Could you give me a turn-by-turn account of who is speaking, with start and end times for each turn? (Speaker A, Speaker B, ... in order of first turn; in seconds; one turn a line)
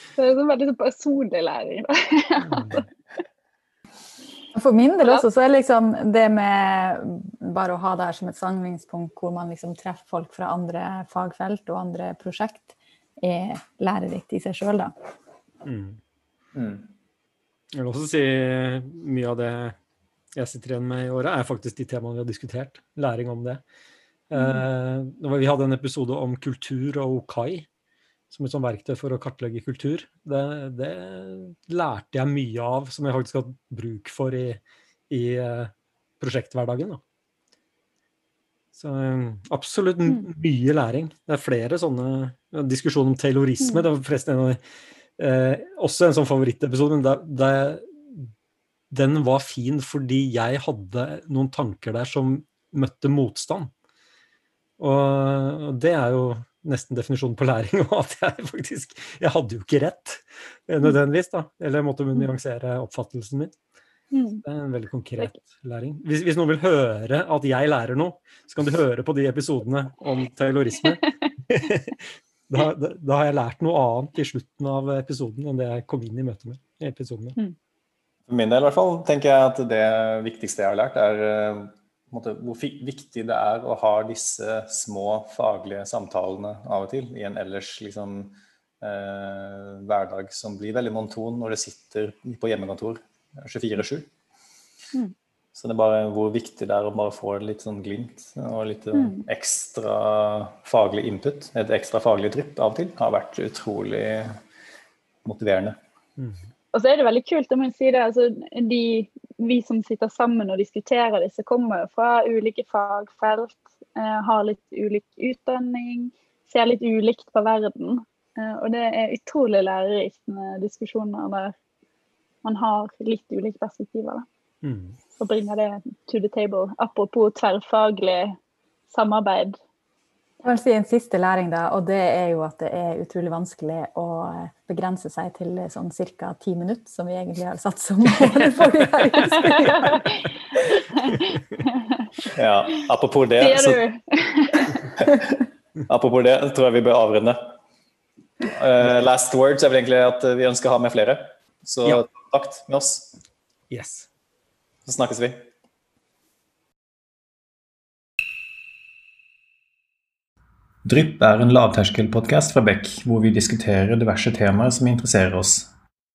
Speaker A: 0.2-2.9
Speaker B: 2.4-2.9
Speaker C: 4.5-14.9
Speaker B: 15.7-16.0
Speaker D: 16.5-16.9
Speaker B: 17.7-19.8
Speaker B: 20.4-23.6
Speaker B: 24.3-27.7
Speaker A: 24.4-24.6
Speaker B: 28.3-37.0
Speaker B: 38.7-44.6
Speaker A: 43.6-43.9
Speaker B: 45.2-48.3
Speaker B: 48.9-53.7
Speaker B: 54.8-63.6
Speaker A: 64.1-64.4
Speaker B: 64.5-77.4
Speaker D: 78.3-94.1
Speaker D: 95.5-104.4
Speaker A: 98.9-99.2
Speaker D: 105.2-105.8
Speaker A: 106.7-121.5
Speaker A: 122.4-124.3
Speaker B: 124.6-125.0
Speaker A: 125.2-128.4
Speaker A: 128.9-129.6
Speaker C: 130.4-140.0
Speaker A: 139.3-142.3
Speaker D: 142.3-143.8
Speaker A: 143.4-145.1
Speaker D: 145.0-145.4
Speaker D: 145.9-147.6
Speaker D: 148.4-153.1
Speaker B: 153.7-154.1
Speaker D: 154.9-155.5
Speaker D: 160.8-165.7